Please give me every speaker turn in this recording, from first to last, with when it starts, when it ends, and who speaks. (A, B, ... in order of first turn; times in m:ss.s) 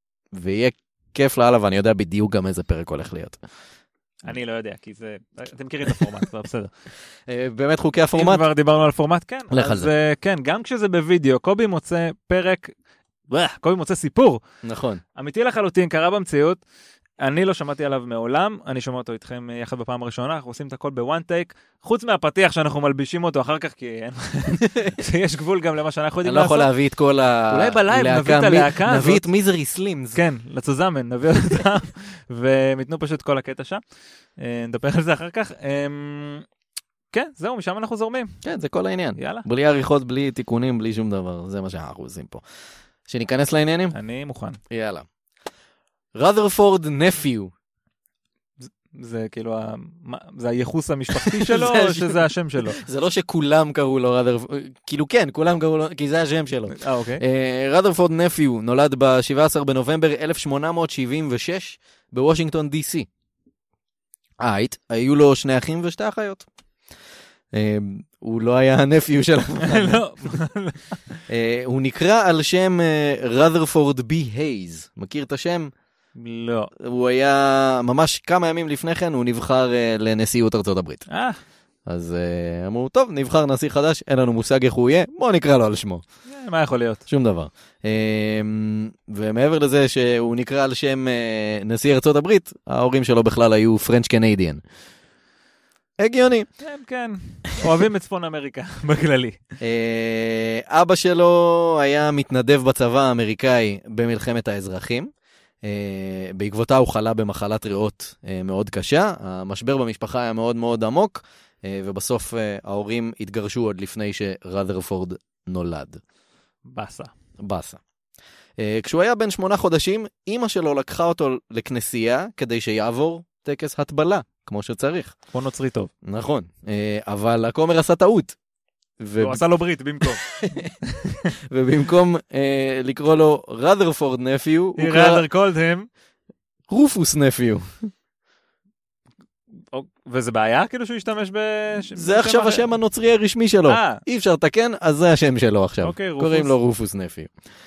0:00.3-0:03.4 A
0:04.2-0:06.7 B
0:07.3-0:08.4 A
0:08.1-0:12.7 B
0:09.5-0:09.9 A
0:13.3-0:14.4 B
0:14.6-0:15.0 A
0:15.2-0:16.6 B
0:17.2-0:26.7 B
0:24.5-0:25.0 A
0:26.2-0:30.2 A
0:27.5-0:29.2 B
0:30.2-0:33.8 B
0:34.4-0:36.5 B
0:37.1-0:38.4 B
0:38.4-0:42.4 A
0:39.2-0:39.4 B
0:43.1-0:44.0 A
0:43.9-0:44.6 B
0:44.7-0:45.1 A
0:46.2-0:47.5 A
0:48.6-0:52.8 B
0:51.1-1:03.1 A
0:56.7-0:57.2 B
1:04.4-1:06.5 A
1:07.5-1:10.4 A
1:09.6-1:11.2 B
1:11.3-1:15.7 A
1:16.2-1:16.7 B
1:16.8-1:21.1 A
1:21.1-1:21.4 B
1:21.9-1:26.0 A
1:26.3-1:27.0 B
1:27.1-1:34.6 A
1:36.0-1:36.5 A
1:36.6-1:39.4 B
1:39.6-1:45.1 A
1:45.6-1:56.0 A
1:56.7-1:57.1 B
1:57.4-1:57.8 A
1:58.6-2:05.2 A
2:05.3-2:05.9 B
2:06.0-2:08.4 A
2:09.0-2:09.4 A
2:09.2-2:10.2 B
2:10.0-2:10.7 A
2:11.5-2:15.2 A
2:14.8-2:15.9 B
2:16.7-2:17.7 A
2:19.7-2:22.7 B
2:22.0-2:27.3 A
2:23.7-2:24.0 B
2:25.8-2:26.6 B